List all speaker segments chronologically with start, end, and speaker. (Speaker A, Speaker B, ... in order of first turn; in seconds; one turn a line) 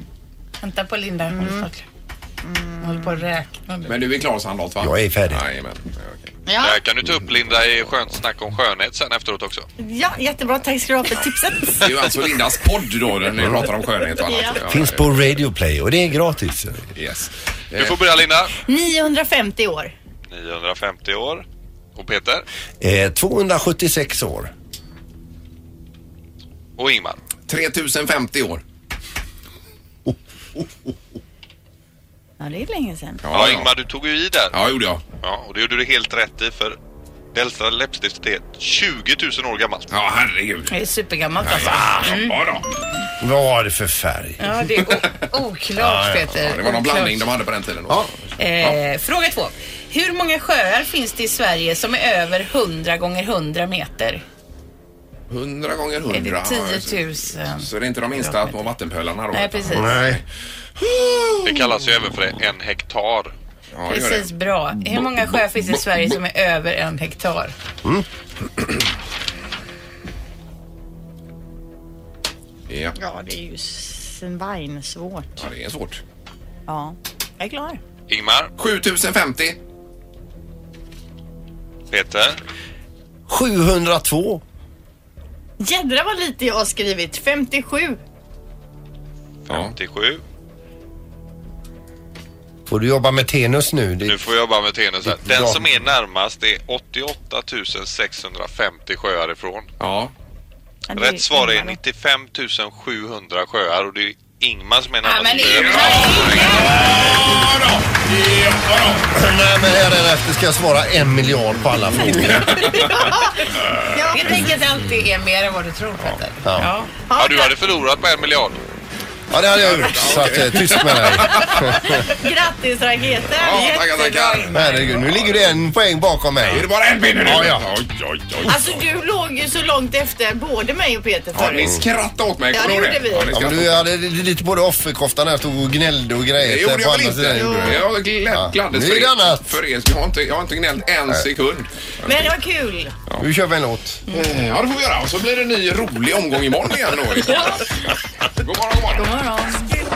Speaker A: 0.6-1.8
Speaker B: 1.3-1.7
Speaker B: 2.4-3.2
Speaker A: 2.8-3.9
Speaker C: 3.9-6.3
Speaker D: 4.8-5.4
Speaker B: 6.5-6.8
Speaker E: 6.6-9.7
Speaker B: 9.8-12.1
Speaker C: 11.8-15.3
Speaker D: 13.4-13.7
Speaker B: 14.2-14.6
Speaker D: 14.6-16.8
Speaker C: 16.9-18.2
Speaker E: 17.7-18.5
Speaker B: 18.6-19.9
Speaker E: 20.3-21.4
Speaker E: 21.9-22.4
Speaker D: 22.8-24.5
Speaker E: 26.8-27.2
Speaker C: 27.5-28.6
Speaker D: 30.1-30.9
Speaker B: 32.4-33.2
Speaker C: 33.2-33.7
Speaker E: 33.3-34.5
Speaker C: 34.5-35.0
Speaker E: 35.2-36.8
Speaker E: 37.3-39.9
Speaker C: 39.9-40.7
Speaker A: 40.7-42.4
Speaker C: 41.4-42.6
Speaker D: 41.7-42.2
Speaker D: 43.2-44.8
Speaker A: 44.4-47.3
Speaker D: 45.8-46.3
Speaker C: 46.3-48.8
Speaker A: 48.4-54.2
Speaker C: 55.3-60.2
Speaker A: 56.1-58.7
Speaker A: 59.3-59.9
Speaker D: 59.7-60.2
Speaker C: 60.9-61.3
Speaker E: 61.4-63.3
Speaker C: 63.7-64.3
Speaker A: 63.9-67.5
Speaker C: 72.7-72.9
Speaker B: 73.0-75.4
Speaker C: 75.4-76.0
Speaker B: 76.7-77.8
Speaker E: 78.1-78.5
Speaker C: 78.6-79.6
Speaker E: 81.9-82.4
Speaker D: 83.3-84.4
Speaker B: 85.6-88.0
Speaker E: 89.5-90.2
Speaker C: 89.5-89.7
Speaker D: 92.7-94.2
Speaker E: 94.1-99.7
Speaker D: 95.0-95.7
Speaker C: 99.8-100.1
Speaker B: 100.9-101.8
Speaker E: 100.9-106.5
Speaker A: 105.0-106.8
Speaker C: 105.4-109.0
Speaker B: 106.3-106.7
Speaker D: 109.1-112.8
Speaker C: 112.1-112.9
Speaker B: 112.5-114.6
Speaker A: 114.1-116.9
Speaker D: 116.4-116.7
Speaker B: 117.1-117.6
Speaker E: 117.1-118.6
Speaker D: 119.3-121.9
Speaker C: 119.5-121.8
Speaker B: 121.3-124.8
Speaker C: 123.3-125.4
Speaker D: 124.5-127.7
Speaker C: 126.4-128.8
Speaker B: 128.4-131.8
Speaker C: 131.3-133.8
Speaker B: 132.5-133.4
Speaker D: 133.3-139.6
Speaker C: 136.4-142.3
Speaker B: 137.3-137.9
Speaker B: 142.1-142.9
Speaker D: 143.2-144.0
Speaker C: 144.1-149.1
Speaker B: 149.0-149.7